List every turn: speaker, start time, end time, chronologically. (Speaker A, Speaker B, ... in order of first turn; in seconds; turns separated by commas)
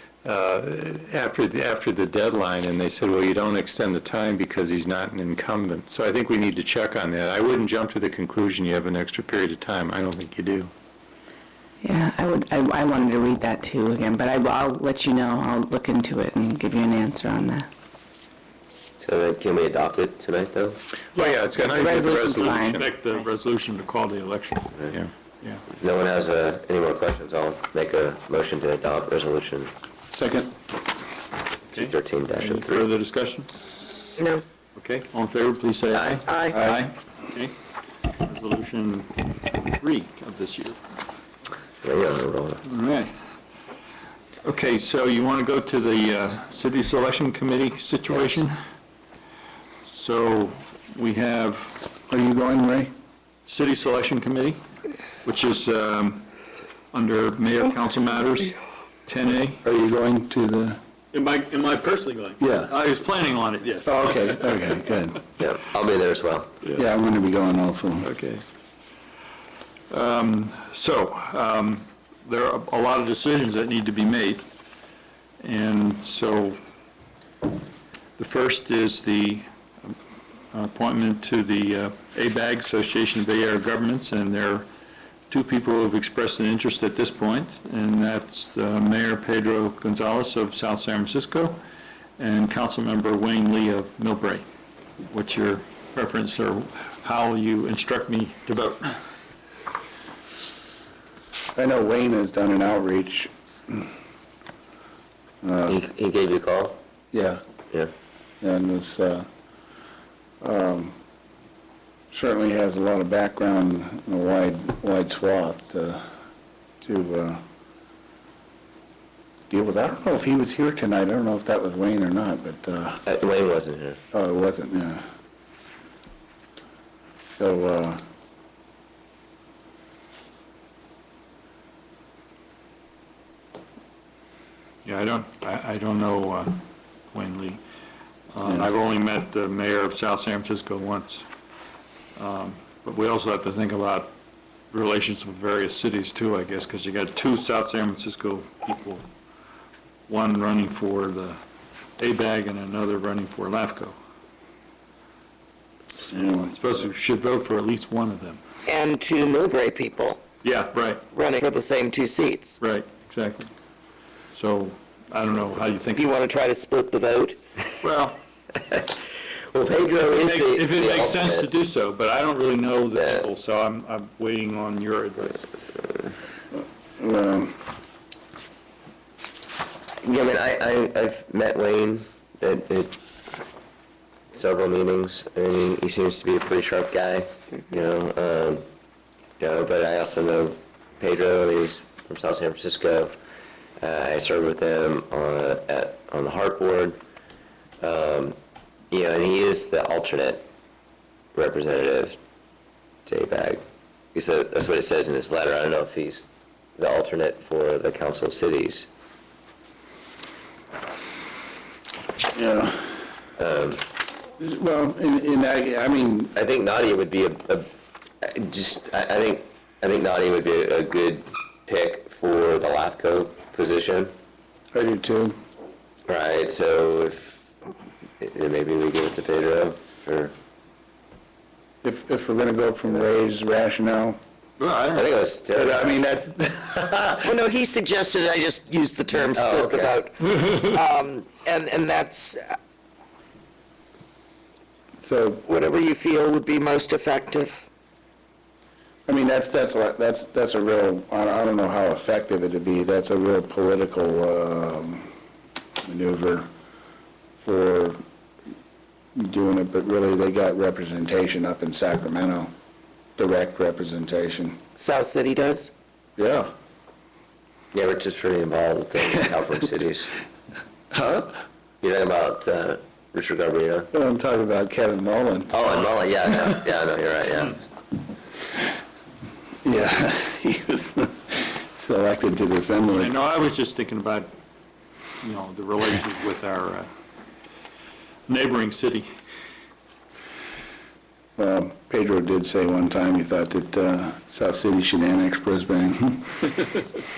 Speaker A: 0.2-10.7, Speaker B: 11.8-17.6, Speaker C: 19.0-20.8, Speaker A: 21.1-22.9, Speaker B: 21.7-22.8, Speaker D: 22.4-24.7, Speaker C: 25.8-29.7, Speaker E: 30.1-30.5, Speaker D: 31.7-33.5, Speaker C: 31.7-32.9, Speaker F: 34.2-34.5, Speaker D: 34.8-37.5, Speaker C: 35.9-36.2, Speaker F: 36.3-36.6, Speaker E: 36.6-36.9, Speaker D: 38.2-40.8, Speaker C: 41.8-42.6, Speaker D: 42.7-43.1, Speaker D: 44.4-48.5, Speaker D: 49.9-51.8, Speaker E: 52.1-52.9, Speaker D: 53.5-54.6, Speaker D: 55.2-56.3, Speaker D: 56.9-59.6, Speaker E: 59.6-60.8, Speaker D: 61.1-64.4, Speaker E: 62.4-62.7, Speaker E: 63.9-65.2, Speaker C: 65.4-66.5, Speaker E: 66.8-68.1, Speaker D: 68.0-68.4, Speaker D: 69.9-74.4, Speaker D: 75.4-76.6, Speaker D: 78.2-79.9, Speaker D: 80.5-84.7, Speaker D: 85.3-91.6, Speaker D: 92.2-94.5, Speaker D: 95.1-99.0, Speaker E: 101.5-103.9, Speaker E: 105.4-105.8, Speaker C: 105.7-106.8, Speaker E: 107.1-107.4, Speaker E: 108.4-109.3, Speaker E: 110.4-110.9, Speaker E: 112.1-116.0, Speaker E: 116.8-117.4, Speaker E: 119.5-123.0, Speaker C: 123.0-124.0, Speaker E: 124.1-125.0, Speaker E: 127.4-128.0, Speaker D: 134.8-137.6, Speaker D: 138.3-141.3, Speaker E: 138.4-138.7, Speaker D: 142.2-144.1, Speaker D: 144.7-149.1, Speaker D: 150.1-151.4, Speaker D: 152.0-154.0, Speaker E: 156.1-156.5, Speaker D: 156.4-158.4, Speaker F: 158.7-160.2, Speaker D: 160.4-161.0, Speaker F: 161.1-162.6, Speaker D: 162.6-163.5, Speaker D: 164.3-166.0, Speaker F: 165.9-167.4, Speaker D: 167.8-168.2, Speaker C: 168.7-171.5, Speaker D: 170.0-175.5, Speaker C: 173.0-173.3, Speaker E: 177.0-177.6, Speaker C: 180.0-183.0, Speaker C: 184.3-188.6, Speaker C: 189.4-193.1, Speaker C: 193.8-197.0, Speaker C: 197.8-198.4, Speaker C: 198.9-200.5, Speaker C: 201.3-202.2, Speaker C: 203.1-203.6, Speaker C: 204.1-208.9, Speaker E: 212.3-213.0, Speaker C: 213.4-213.8, Speaker E: 214.4-216.3, Speaker C: 216.3-217.7, Speaker C: 218.2-224.1, Speaker E: 224.7-225.3, Speaker C: 226.1-227.4, Speaker C: 228.2-230.3, Speaker E: 231.8-234.2, Speaker D: 234.6-235.0, Speaker C: 234.9-235.9, Speaker E: 235.5-237.3, Speaker F: 237.2-242.6, Speaker C: 239.3-239.9, Speaker E: 245.0-245.4, Speaker F: 245.4-247.7, Speaker E: 249.1-255.1, Speaker E: 255.8-256.5, Speaker E: 257.4-258.0, Speaker E: 259.2-262.5, Speaker E: 263.2-264.6, Speaker F: 264.8-265.7, Speaker E: 266.2-266.5, Speaker C: 267.7-270.1, Speaker E: 270.9-271.4, Speaker C: 271.8-273.9, Speaker E: 273.9-275.6, Speaker C: 275.5-277.6, Speaker E: 279.6-283.1, Speaker D: 282.9-284.3, Speaker D: 285.2-286.9, Speaker D: 288.3-289.1, Speaker E: 291.4-296.6